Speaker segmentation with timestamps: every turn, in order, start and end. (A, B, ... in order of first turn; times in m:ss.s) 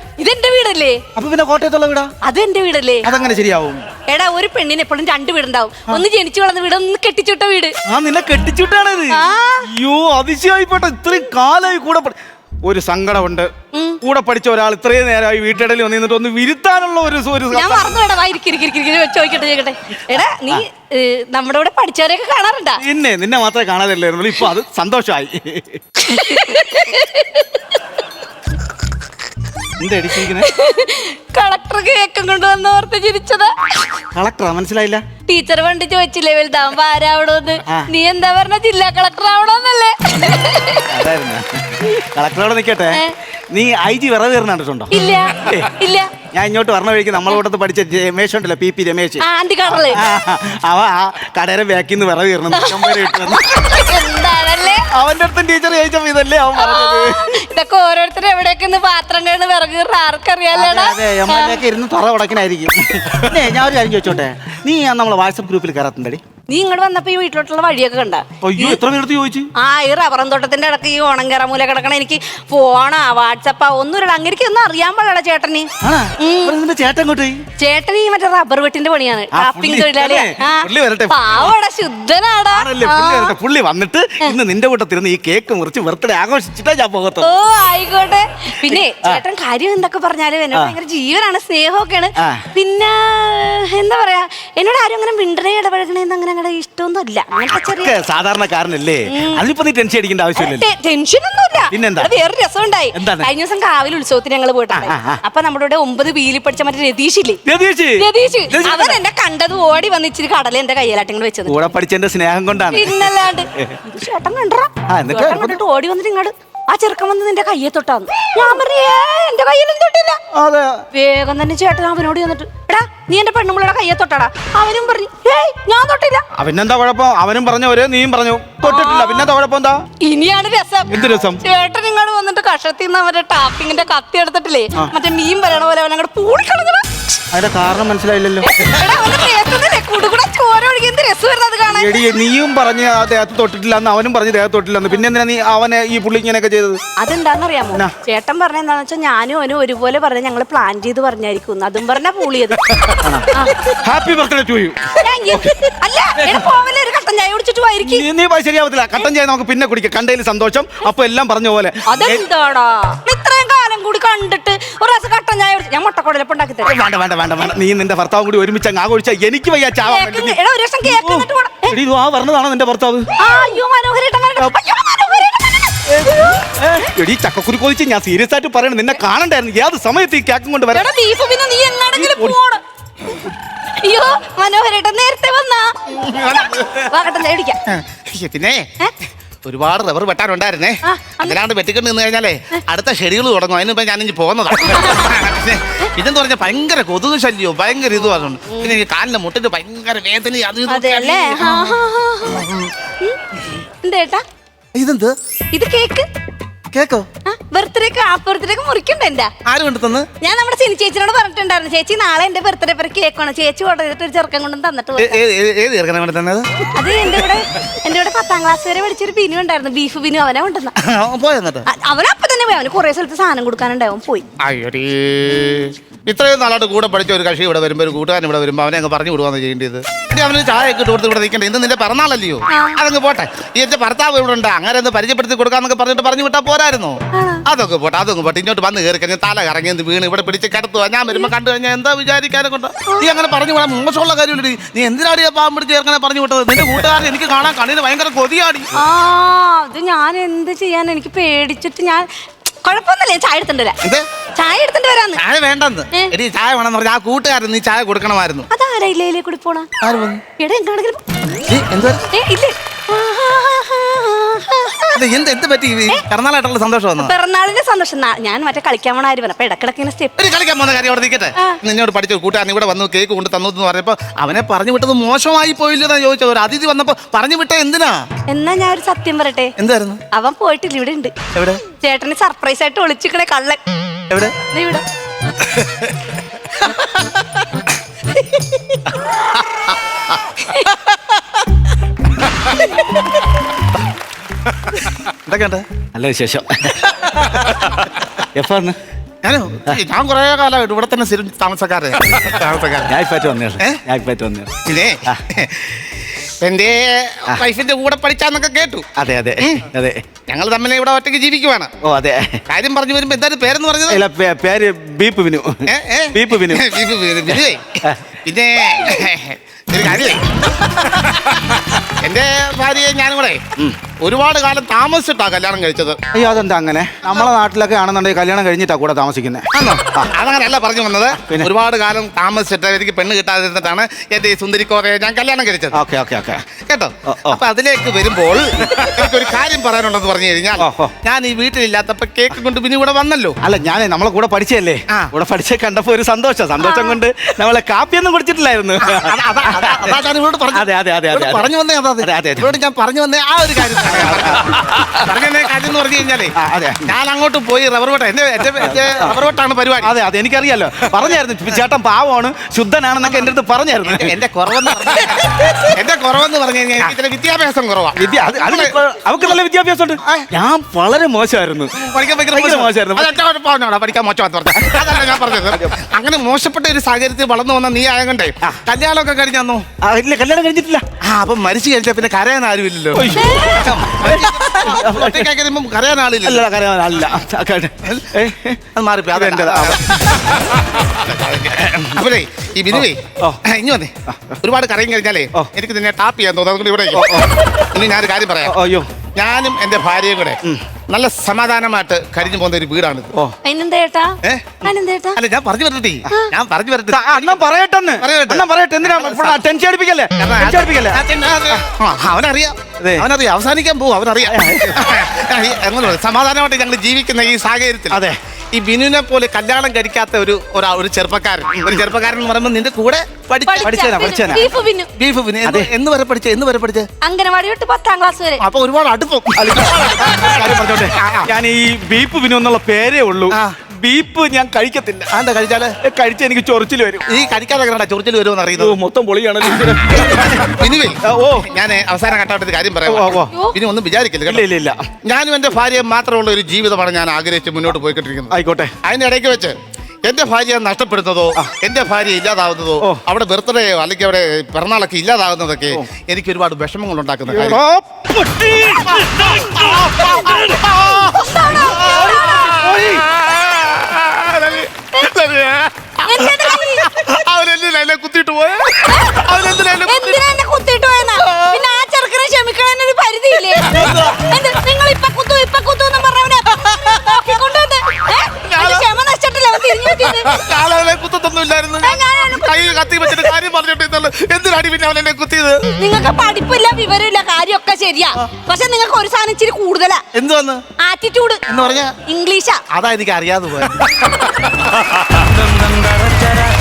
0:00.2-0:01.0 A
0:01.2-0:02.1 B
0:02.2-0:03.1 A
0:03.0-0:03.8 B
0:04.1-0:07.7 A
0:07.9-0:13.5 B
0:09.1-0:09.7 A
0:13.7-0:14.0 A
0:14.0-0:18.0 B
0:17.5-0:22.8 A
0:22.8-0:25.8 B
0:26.0-0:27.8 A
0:29.8-0:30.5 B
0:30.2-0:33.5 A
0:34.1-0:35.0 B
0:35.3-0:41.0 A
0:40.9-0:44.9 B
0:44.9-0:46.1 A
0:45.4-0:45.7 B
0:46.3-0:53.5 B
0:49.2-0:50.0 A
0:52.5-0:54.9 A
0:54.9-0:57.3 B
0:56.6-1:01.6 A
1:00.5-1:06.2 B
1:06.5-1:08.8 A
1:08.4-1:09.5 B
1:09.6-1:16.6 A
1:15.8-1:17.4 B
1:17.6-1:23.4 A
1:19.3-1:21.4 B
1:22.5-1:27.3 B
1:27.2-1:38.0 A
1:28.6-1:29.2 B
1:30.5-1:30.8 B
1:37.7-1:40.7 B
1:39.1-1:39.4 A
1:40.4-1:47.4 A
1:41.7-1:42.1 B
1:42.9-1:43.3 B
1:44.7-1:45.2 B
1:47.4-1:49.0 B
1:48.0-1:51.7 A
1:51.5-1:53.8 B
1:52.7-2:00.2 A
1:54.9-1:55.6 B
2:00.3-2:00.8 B
2:00.9-2:06.2 A
2:06.4-2:09.8 B
2:08.6-2:09.3 A
2:10.0-2:16.9 A
2:10.9-2:11.4 B
2:17.3-2:18.5 B
2:18.4-2:22.1 A
2:21.7-2:26.8 B
2:27.0-2:33.7 A
2:33.0-2:35.6 B
2:35.0-2:38.1 A
2:36.2-2:36.4 B
2:37.8-2:42.3 B
2:41.9-2:46.8 A
2:46.6-2:53.1 B
2:49.8-2:51.8 A
2:53.2-2:56.5 A
2:55.9-3:00.9 B
3:00.7-3:02.6 A
3:01.9-3:02.4 B
3:03.8-3:05.7 A
3:05.9-3:06.9 C
3:06.7-3:07.6 A
3:07.7-3:08.7 C
3:09.4-3:21.8 C
3:10.8-3:11.4 A
3:14.6-3:15.2 A
3:20.7-3:22.5 A
3:22.3-3:22.7 C
3:23.8-3:24.2 A
3:24.8-3:25.1 C
3:25.5-3:26.1 A
3:26.7-3:27.1 C
3:27.3-3:29.3 A
3:29.4-3:30.1 C
3:30.2-3:35.2 A
3:35.0-3:36.5 C
3:36.7-3:40.7 A
3:40.8-3:41.7 C
3:41.7-3:44.3 A
3:44.4-4:08.7 C
3:52.5-3:52.8 A
3:57.1-3:57.4 A
4:08.7-4:13.8 A
4:14.4-4:15.2 A
4:15.2-4:18.5 C
4:18.5-4:19.7 A
4:19.8-4:20.2 C
4:20.4-4:21.0 A
4:21.5-4:22.1 C
4:22.1-4:25.1 A
4:24.9-4:27.1 C
4:27.0-4:30.2 A
4:30.2-4:38.0 C
4:38.3-4:39.5 A
4:39.6-4:40.0 C
4:40.1-4:41.1 A
4:41.3-4:41.6 C
4:41.7-4:43.6 A
4:44.1-4:44.4 C
4:44.5-4:44.8 A
4:45.4-4:45.9 C
4:46.6-4:47.0 C
4:49.3-4:50.2 C
4:54.7-4:55.6 C
4:56.0-4:58.8 B
4:57.0-4:57.7 C
4:59.2-5:02.9 C
5:02.9-5:04.5 B
5:04.6-5:08.9 C
5:09.0-5:10.0 B
5:09.4-5:09.7 C
5:10.3-5:11.7 C
5:11.8-5:12.4 B
5:12.5-5:14.0 C
5:13.9-5:16.6 B
5:15.7-5:23.4 C
5:17.3-5:18.0 B
5:24.0-5:26.0 C
5:26.1-5:30.1 B
5:29.5-5:35.8 C
5:31.2-5:31.5 B
5:35.7-5:36.4 B
5:36.6-5:43.4 C
5:37.1-5:37.4 B
5:40.6-5:40.9 B
5:43.4-5:50.0 B
5:46.6-5:47.0 A
5:48.8-5:56.3 C
5:50.5-5:51.4 B
5:52.0-5:52.5 B
5:53.9-5:54.9 B
5:56.4-5:56.9 B
5:56.9-5:59.9 C
5:58.6-5:59.2 B
5:59.8-6:04.2 B
6:03.0-6:03.3 C
6:03.9-6:08.8 C
6:08.0-6:11.7 B
6:11.8-6:19.7 C
6:12.3-6:13.1 B
6:14.7-6:15.7 B
6:19.8-6:20.8 B
6:21.0-6:26.5 C
6:22.9-6:25.3 B
6:23.2-6:23.6 A
6:26.2-6:28.6 B
6:27.8-6:28.1 C
6:28.8-6:38.6 C
6:29.1-6:29.8 B
6:31.6-6:31.9 B
6:32.7-6:33.4 B
6:34.1-6:34.4 B
6:36.9-6:37.3 B
6:38.4-6:38.9 B
6:39.2-6:40.4 C
6:40.9-6:43.1 C
6:43.4-6:45.2 A
6:44.2-6:44.6 C
6:45.2-6:47.4 C
6:46.9-6:51.0 B
6:48.0-6:49.4 C
6:50.2-6:58.0 C
6:52.8-6:53.1 B
6:54.3-6:54.9 B
6:57.9-6:58.2 B
6:58.5-7:04.4 C
7:03.5-7:04.9 A
7:03.6-7:04.5 B
7:05.0-7:06.9 C
7:05.4-7:05.7 B
7:07.0-7:08.4 A
7:08.4-7:10.2 C
7:09.4-7:15.1 B
7:11.0-7:11.3 C
7:13.3-7:13.6 C
7:15.1-7:15.8 C
7:15.8-7:17.1 B
7:17.1-7:18.8 C
7:18.6-7:20.5 B
7:20.4-7:24.5 C
7:21.0-7:21.5 B
7:22.9-7:23.3 B
7:24.3-7:24.8 B
7:25.1-7:37.6 C
7:28.3-7:28.7 B
7:37.3-7:40.6 B
7:38.8-7:50.2 C
7:41.0-7:42.6 A
7:41.9-7:43.0 B
7:46.0-7:46.9 A
7:48.9-7:49.3 A
7:49.8-8:00.3 A
7:51.3-7:51.6 C
7:53.6-7:54.2 C
7:56.8-7:57.1 C
7:58.5-7:58.9 C
7:59.8-8:05.6 C
8:01.8-8:03.3 A
8:05.8-8:10.0 A
8:10.1-8:10.6 C
8:10.8-8:11.4 A
8:11.5-8:12.0 C
8:12.0-8:12.6 A
8:12.7-8:14.3 C
8:15.1-8:16.0 C